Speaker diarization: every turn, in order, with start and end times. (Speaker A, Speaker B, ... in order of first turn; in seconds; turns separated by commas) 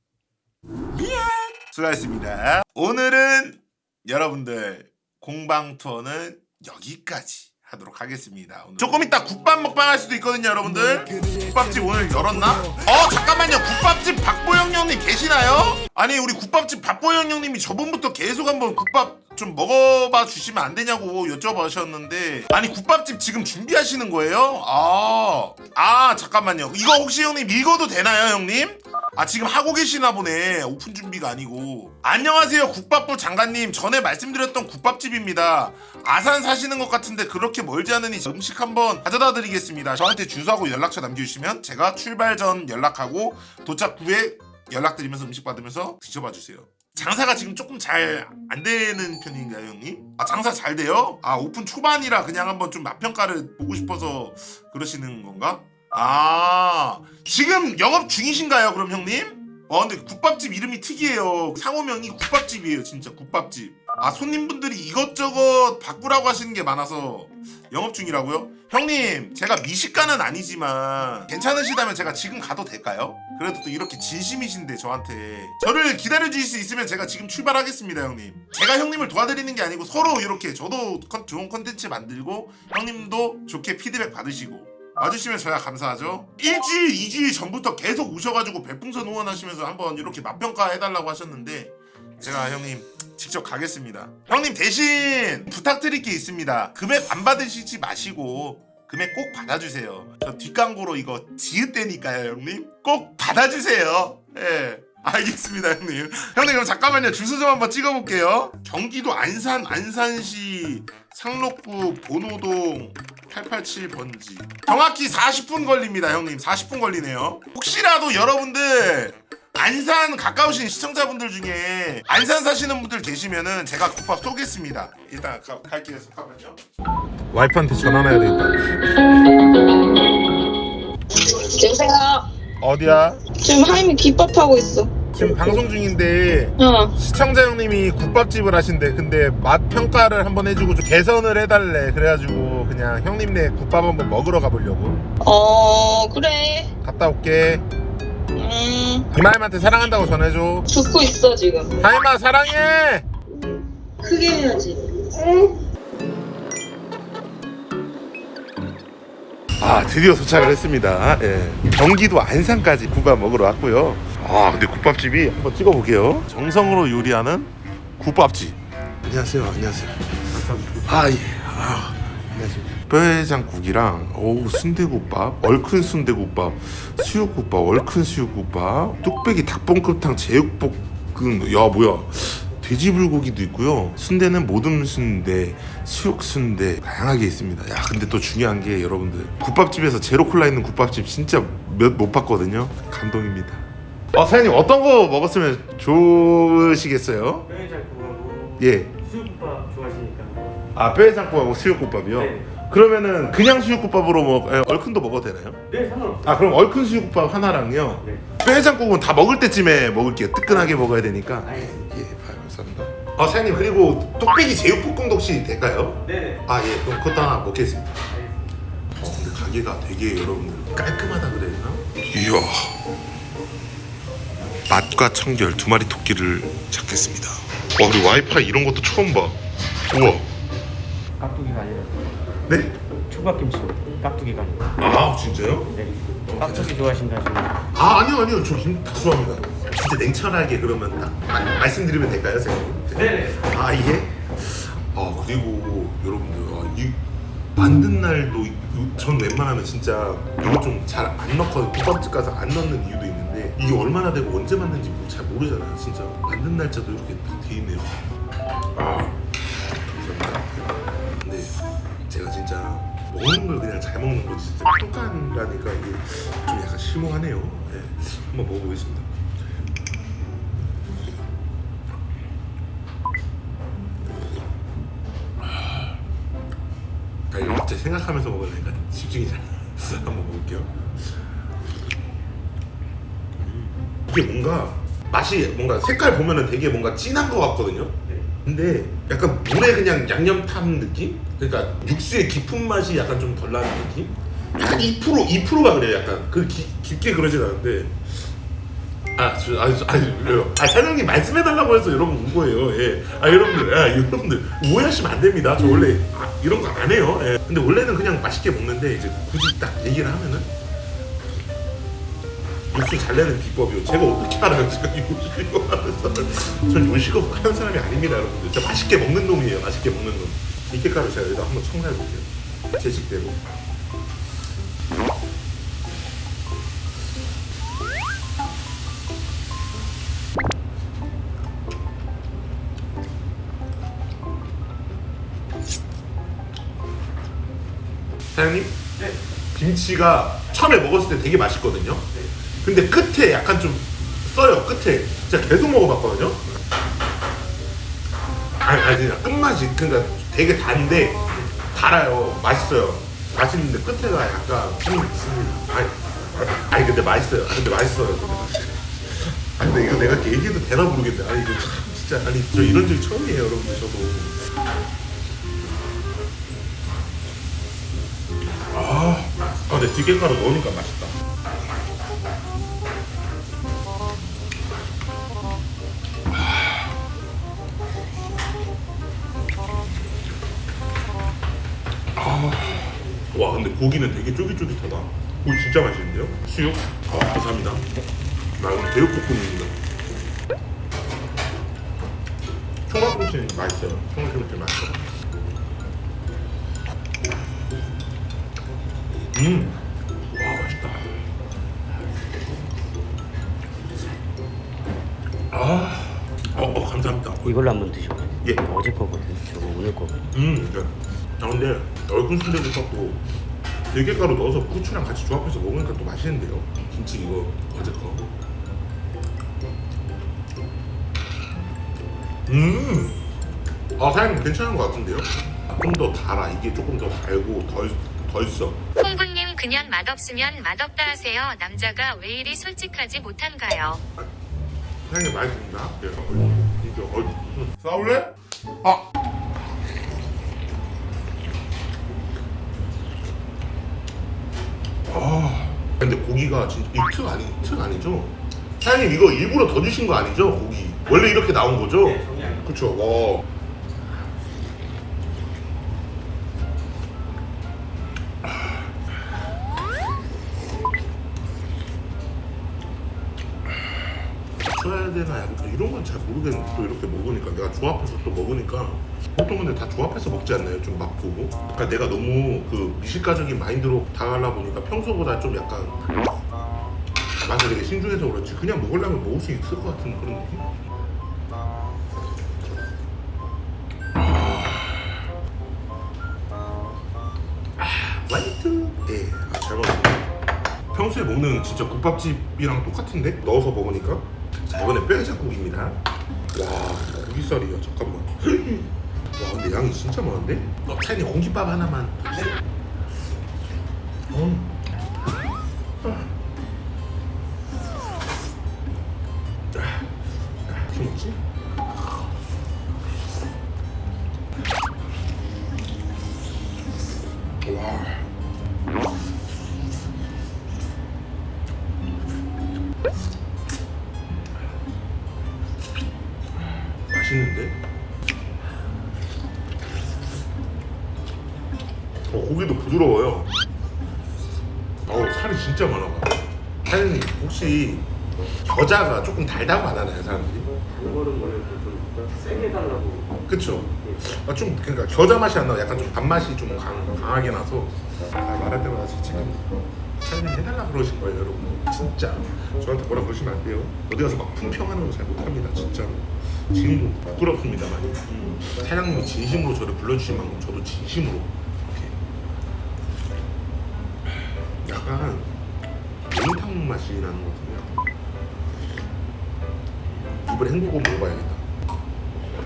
Speaker A: 1.6-126.6, Speaker A: 127.3-128.7, Speaker B: 131.2-132.3, Speaker A: 132.6-133.3, Speaker B: 133.2-135.0, Speaker A: 135.1-145.0, Speaker B: 136.6-136.9, Speaker B: 145.2-146.7, Speaker A: 146.8-147.6, Speaker B: 148.3-149.1, Speaker A: 149.1-150.7, Speaker B: 150.7-151.8, Speaker A: 151.8-153.1, Speaker B: 153.3-155.6, Speaker A: 159.6-197.5, Speaker C: 170.3-171.1, Speaker C: 197.5-200.8, Speaker A: 198.6-198.9, Speaker A: 200.7-205.6, Speaker C: 202.1-202.6, Speaker C: 205.7-206.7, Speaker A: 206.2-217.9, Speaker C: 208.0-208.3, Speaker C: 210.5-210.8, Speaker C: 211.4-211.9, Speaker C: 216.0-216.4, Speaker C: 218.1-218.6, Speaker A: 218.9-222.8, Speaker A: 224.7-229.4, Speaker A: 229.9-230.3, Speaker C: 231.2-232.3, Speaker A: 232.5-232.8, Speaker C: 233.1-234.8, Speaker A: 234.8-237.0, Speaker C: 235.7-237.7, Speaker A: 237.7-247.0, Speaker C: 242.9-243.4, Speaker A: 247.6-258.1, Speaker A: 258.7-259.2, Speaker A: 259.8-260.7, Speaker A: 261.2-261.6, Speaker A: 262.1-269.1, Speaker A: 275.5-275.8, Speaker A: 277.3-280.9, Speaker A: 283.4-298.2, Speaker A: 299.1-310.5, Speaker A: 312.7-323.4, Speaker A: 338.3-338.8, Speaker A: 339.5-346.4, Speaker A: 348.6-364.4, Speaker A: 368.7-371.1, Speaker A: 382.1-387.9, Speaker A: 388.6-389.7, Speaker A: 392.9-395.0, Speaker A: 399.3-399.8, Speaker A: 400.3-401.1, Speaker A: 405.5-407.5, Speaker C: 407.3-410.3, Speaker A: 410.3-413.2, Speaker A: 413.9-418.3, Speaker A: 422.5-423.2, Speaker A: 423.9-428.8, Speaker D: 429.0-434.0, Speaker A: 435.0-439.0, Speaker A: 445.1-453.4, Speaker C: 452.0-452.6, Speaker A: 464.6-476.1, Speaker A: 477.4-480.7, Speaker A: 484.1-485.1, Speaker A: 487.8-490.3, Speaker A: 490.9-496.0, Speaker A: 496.5-502.6, Speaker A: 504.3-504.8, Speaker A: 506.0-506.3, Speaker A: 509.7-510.1, Speaker A: 510.6-511.4, Speaker A: 517.6-518.3, Speaker A: 527.1-527.8, Speaker A: 532.3-533.5, Speaker A: 535.0-538.1, Speaker A: 538.6-540.7, Speaker C: 540.8-543.4, Speaker A: 543.4-549.6, Speaker A: 550.1-562.1, Speaker A: 564.8-565.5, Speaker A: 566.3-567.9, Speaker A: 570.3-571.6